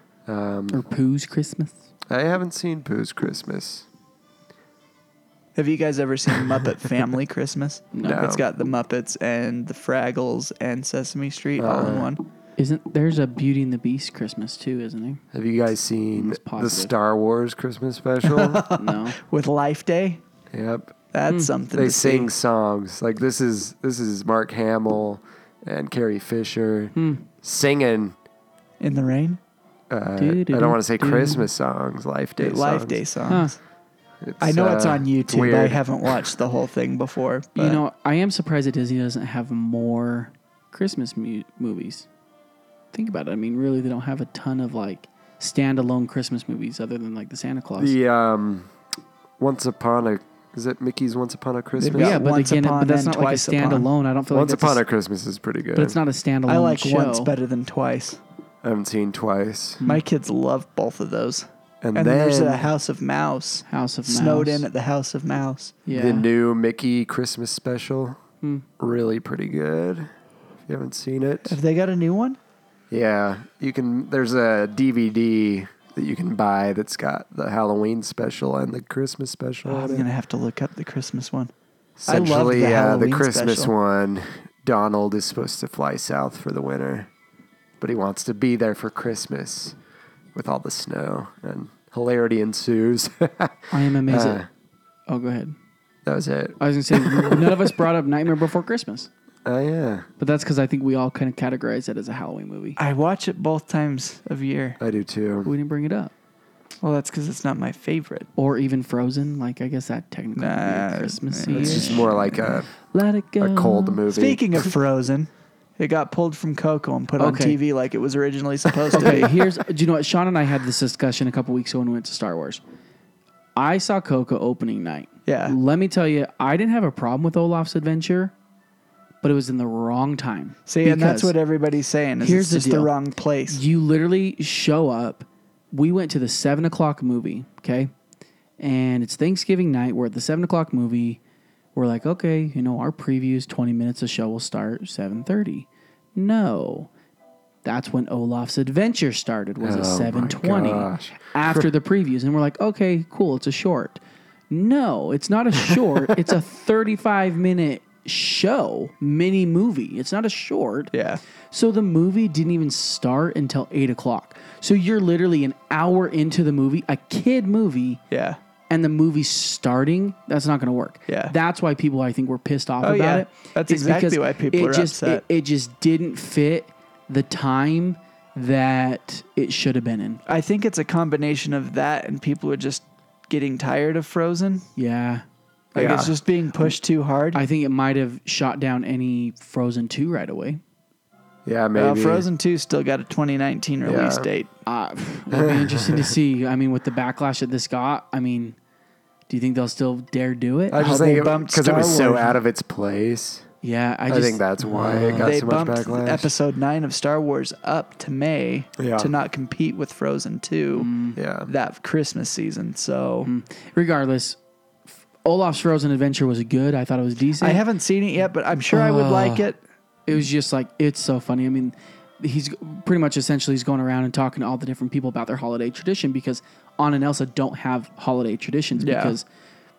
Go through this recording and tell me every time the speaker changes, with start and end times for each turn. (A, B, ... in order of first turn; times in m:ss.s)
0:00.3-0:00.8 A
0:00.7-0:01.8 B
0:02.1-0:03.9 A
0:05.6-0:12.2 C
0:07.9-0:08.2 B
0:08.0-0:08.5 A
0:11.6-0:12.1 A
0:12.6-0:15.2 B
0:15.3-0:18.7 A
0:16.1-0:16.9 B
0:18.2-0:20.2 C
0:18.7-0:19.2 B
0:20.5-0:20.9 A
0:21.1-0:22.3 C
0:21.7-0:28.2 A
0:26.9-0:27.3 B
0:28.8-0:29.4 C
0:29.9-0:33.0 A
0:30.2-0:31.5 B
0:32.4-0:33.6 C
0:33.3-0:33.5 B
0:34.2-0:35.8 A
0:34.4-0:37.8 C
0:37.6-0:42.1 B
0:42.9-0:48.0 B
0:47.8-0:48.7 A
0:49.4-0:52.2 A
0:51.8-0:53.9 C
0:51.9-0:54.8 B
0:54.3-0:56.0 A
0:55.8-0:57.3 B
0:56.5-0:58.2 C
0:58.6-0:59.8 A
0:59.9-1:05.8 C
1:01.8-1:02.7 A
1:03.7-1:04.7 B
1:05.9-1:06.3 B
1:05.9-1:08.2 A
1:08.4-1:08.7 B
1:08.8-1:10.1 A
1:10.7-1:11.6 A
1:11.5-1:12.4 C
1:12.9-1:20.1 A
1:19.6-1:21.5 C
1:22.0-1:27.1 A
1:22.1-1:23.7 C
1:27.8-1:29.8 A
1:30.4-1:34.5 A
1:33.7-1:34.4 B
1:35.1-1:35.5 B
1:36.1-1:37.7 A
1:36.6-1:39.1 B
1:39.4-1:40.1 A
1:40.2-1:42.8 B
1:42.8-1:44.8 C
1:44.8-1:45.5 A
1:45.4-1:46.1 B
1:46.8-1:48.3 C
1:48.4-1:54.0 B
1:50.4-1:52.2 C
1:51.5-1:52.7 A
1:53.4-1:54.6 A
1:54.1-1:59.3 C
1:57.2-1:57.6 B
1:58.9-2:02.6 B
2:03.6-2:08.3 B
2:05.2-2:05.6 C
2:09.2-2:11.3 B
2:10.7-2:13.6 C
2:12.2-2:12.9 B
2:13.5-2:17.9 B
2:18.6-2:21.2 B
2:21.8-2:26.9 B
2:27.6-2:40.9 B
2:29.6-2:31.7 A
2:40.9-2:41.2 C
2:41.5-2:48.0 B
2:48.1-2:48.4 C
2:48.7-3:00.2 B
2:51.1-2:51.3 C
2:52.8-2:55.2 C
3:00.2-3:04.7 C
3:04.8-3:05.2 B
3:05.7-3:07.4 C
3:05.8-3:06.1 A
3:07.3-3:10.6 B
3:11.4-3:12.3 A
3:11.8-3:14.5 C
3:13.8-3:14.3 A
3:14.7-3:18.6 B
3:15.3-3:16.1 A
3:19.3-3:20.8 B
3:20.7-3:23.5 A
3:20.8-3:22.4 C
3:23.6-3:25.5 B
3:24.1-3:26.3 A
3:25.2-3:30.9 C
3:28.8-3:29.1 A
3:30.7-3:31.2 B
3:31.2-3:31.5 A
3:31.5-3:33.3 C
3:33.2-3:34.4 B
3:34.9-3:37.6 B
3:37.4-3:39.6 C
3:38.7-3:39.5 B
3:40.1-3:49.2 B
3:48.8-3:49.2 C